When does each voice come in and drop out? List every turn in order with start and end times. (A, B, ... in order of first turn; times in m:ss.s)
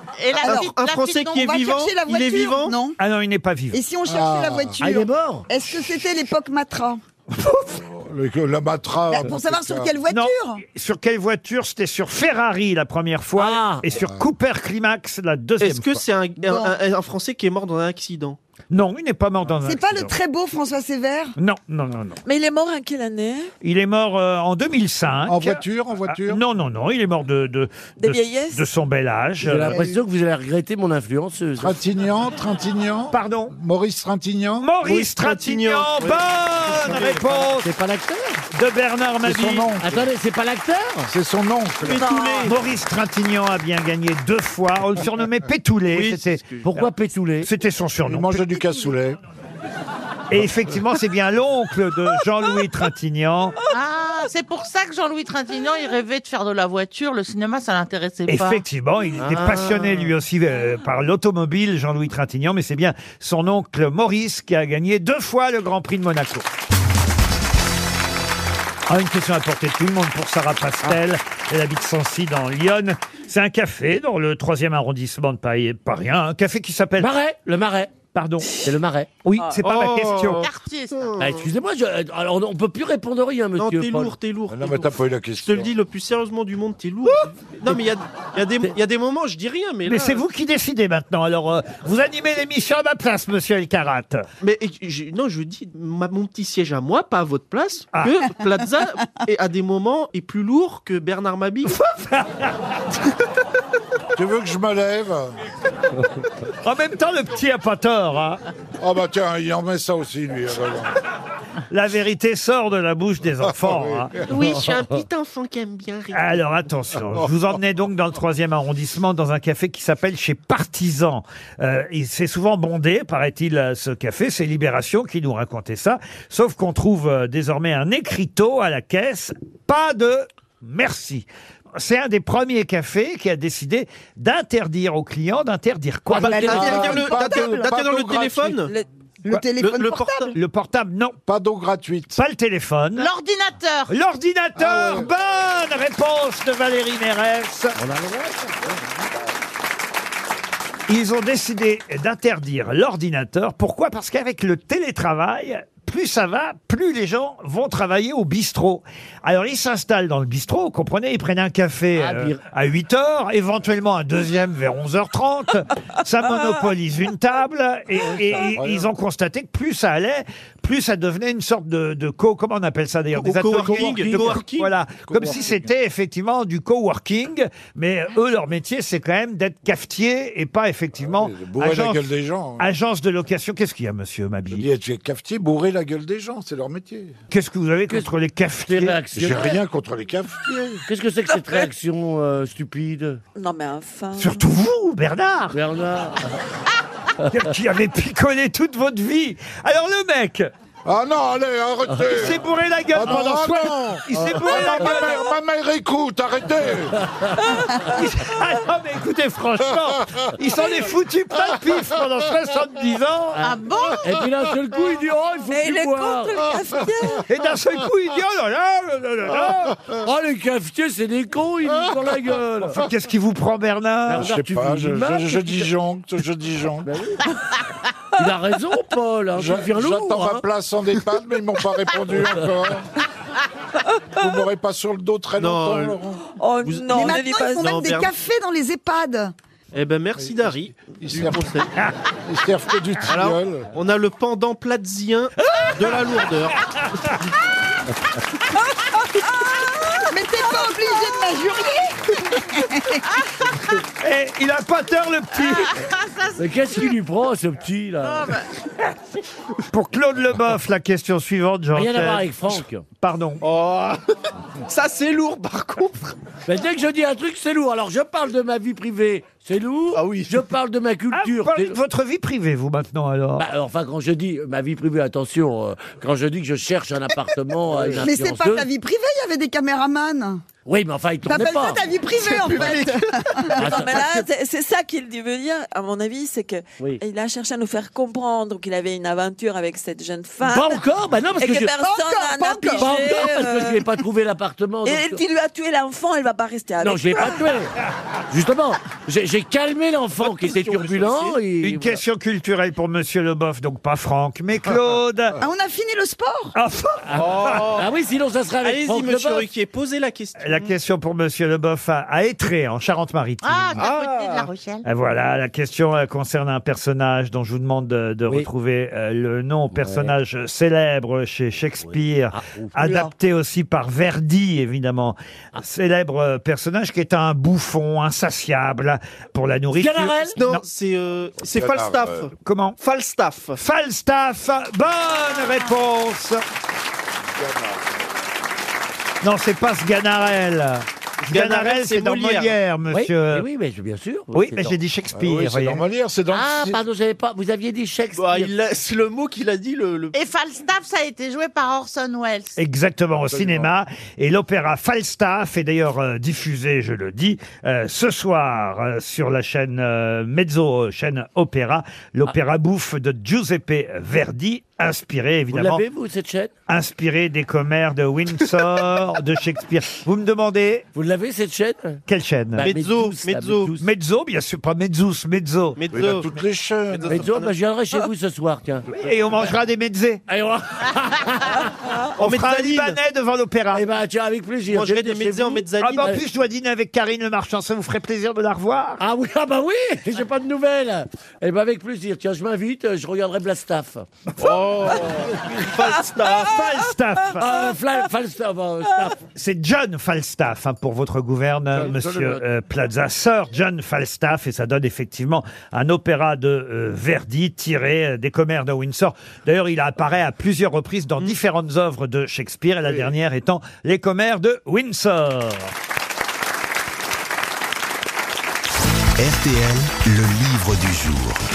0:00.2-0:01.5 A
0:00.4-0:03.0 B
0:00.4-0:02.8 C
0:03.0-0:03.8 D
0:03.7-0:07.0 B
0:04.1-0:04.8 E
0:04.8-0:05.5 F
0:07.4-0:07.7 D
0:07.7-0:10.0 E
0:09.1-0:10.6 B
0:10.1-0:16.1 D
0:13.4-0:13.9 F
0:13.9-0:14.2 E
0:15.6-0:18.4 C
0:16.4-0:16.8 B
0:18.7-0:20.2 D
0:19.6-0:21.4 B
0:21.4-0:22.2 D
0:22.2-0:23.5 G
0:23.6-0:29.8 D
0:25.3-0:26.4 E
0:28.0-0:28.7 G
0:29.4-0:31.8 F
0:29.7-0:30.0 B
0:31.6-0:34.7 E
0:33.1-0:33.5 D
0:34.6-0:37.7 D
0:34.8-0:37.4 C
0:37.0-0:38.4 F
0:38.5-0:39.7 D
0:39.2-0:40.1 E
0:39.8-0:41.1 F
0:41.1-0:42.1 E
0:41.8-0:42.6 C
0:41.9-0:42.4 F
0:42.4-0:46.8 D
0:45.9-0:46.7 C
0:46.6-0:47.5 F
0:47.4-0:48.6 D
0:48.1-0:49.2 E
0:50.3-0:53.6 D
0:53.7-0:58.6 A
0:58.3-1:06.5 D
0:59.2-1:00.1 F
1:08.9-1:17.1 D
1:17.0-1:17.9 F
1:18.1-1:18.6 D
1:18.6-1:19.1 F
1:19.2-1:20.5 D
1:19.6-1:20.4 C
1:20.3-1:21.2 A
1:21.0-1:21.4 C
1:21.2-1:24.2 F
1:23.6-1:30.2 C
1:24.5-1:25.7 E
1:29.9-1:34.3 D
1:34.4-1:41.8 C
1:41.6-1:42.5 D
1:44.2-1:45.4 E
1:46.6-1:48.4 D
1:48.8-1:51.0 E
1:51.7-1:54.2 D
1:53.5-1:54.1 E
1:54.3-1:56.4 C
1:54.3-1:56.0 A
1:56.1-2:16.6 D
2:16.2-2:18.7 C
2:16.2-2:17.7 B
2:16.5-2:18.7 E
2:19.2-2:20.3 B
2:19.6-2:20.3 C
2:20.3-2:21.2 D
2:21.3-2:22.2 E
2:22.2-2:23.1 D
2:23.0-2:23.9 A
2:23.9-2:27.8 D
2:24.6-2:25.1 E
2:27.8-2:28.7 F
2:30.9-3:02.1 D
2:42.0-2:42.4 F
2:48.0-2:48.9 E
2:53.2-2:54.7 C
2:53.7-2:54.4 F
2:55.1-2:55.7 E
3:01.0-3:02.6 E
3:02.6-3:04.6 D
3:04.5-3:07.2 E
3:07.3-3:09.0 D
3:08.7-3:09.6 F
3:09.1-3:10.8 E
3:10.9-3:13.2 F
3:13.4-3:14.4 G
3:14.2-3:15.6 D
3:15.5-3:16.4 F
3:17.3-3:20.5 D
3:20.8-3:22.4 E
3:22.1-3:25.2 D
3:22.9-3:27.0 E
3:24.2-3:24.5 F
3:27.0-3:27.3 F
3:27.9-3:33.4 D
3:33.4-3:36.5 F
3:33.4-3:34.2 A
3:35.5-3:37.2 G
3:37.3-3:39.8 D
3:40.0-3:42.8 F
3:42.8-3:44.3 D
3:44.1-3:45.7 F
3:44.1-3:47.0 E
3:46.9-3:47.3 F
3:48.2-3:50.4 F
3:49.4-3:52.9 E
3:54.2-3:56.2 E
3:55.4-3:56.0 C
3:56.4-3:57.9 G
3:56.6-3:58.1 C
3:56.9-3:59.3 B
3:59.7-4:01.7 C
4:00.2-4:01.6 E
4:02.2-4:03.7 E
4:03.1-4:06.6 C
4:09.9-4:13.0 B
4:14.0-4:15.9 D
4:15.3-4:16.6 A
4:16.4-4:18.3 F
4:18.0-4:18.5 A
4:19.7-4:23.4 D
4:21.8-4:22.8 F
4:23.4-4:24.0 C
4:24.7-4:26.2 C
4:26.5-4:31.8 F
4:29.9-4:30.4 C
4:31.1-4:33.4 D
4:33.4-4:38.7 F
4:37.7-4:38.0 E
4:38.0-4:40.4 B
4:40.7-4:41.8 F
4:41.3-4:44.1 B
4:42.6-4:42.8 E
4:43.6-4:44.1 F
4:43.6-4:50.8 G
4:50.4-4:51.8 F
4:51.4-4:53.8 G
4:51.8-4:53.1 B
4:52.8-4:55.2 F
4:54.8-4:57.4 G
4:56.8-4:57.7 F
4:58.3-5:02.0 F
5:00.2-5:01.4 C
5:01.6-5:05.4 D
5:05.4-5:06.5 B
5:06.6-5:07.6 D
5:07.1-5:09.5 F
5:07.2-5:07.9 C
5:08.6-5:10.7 C
5:10.4-5:13.9 D
5:13.4-5:14.8 A
5:13.8-5:14.4 C
5:14.8-5:30.6 D
5:19.7-5:20.2 F
5:21.8-5:23.1 F
5:29.8-5:30.4 F
5:30.4-5:33.6 C
5:31.4-5:32.3 E
5:32.4-5:32.8 D
5:33.6-5:36.4 D
5:37.4-5:37.8 E
5:39.2-5:43.4 D
5:41.3-5:42.6 C
5:42.9-5:44.8 F
5:44.3-5:45.8 D
5:45.1-5:46.8 E
5:46.3-5:48.5 F
5:48.1-5:50.1 C
5:50.1-5:52.6 A
5:52.6-6:05.8 D
5:53.3-5:53.7 E
6:05.5-6:06.5 F
6:06.7-6:10.9 D
6:11.0-6:12.0 F
6:12.1-6:12.7 D
6:12.6-6:13.8 F
6:12.6-6:13.8 C
6:13.8-6:15.8 D
6:15.8-6:16.4 C
6:15.9-6:17.3 E
6:16.9-6:17.6 C
6:17.1-6:18.9 F
6:18.9-6:20.2 D
6:20.3-6:21.7 F
6:22.2-6:23.8 D
6:22.2-6:23.0 C
6:23.7-6:26.2 F
6:24.7-6:26.2 C
6:25.8-6:29.0 D
6:29.0-6:35.8 F
6:34.4-6:36.6 C
6:36.4-6:37.5 D
6:37.4-6:39.2 F
6:39.3-6:55.7 D
6:41.8-6:42.4 F
6:59.2-7:01.4 H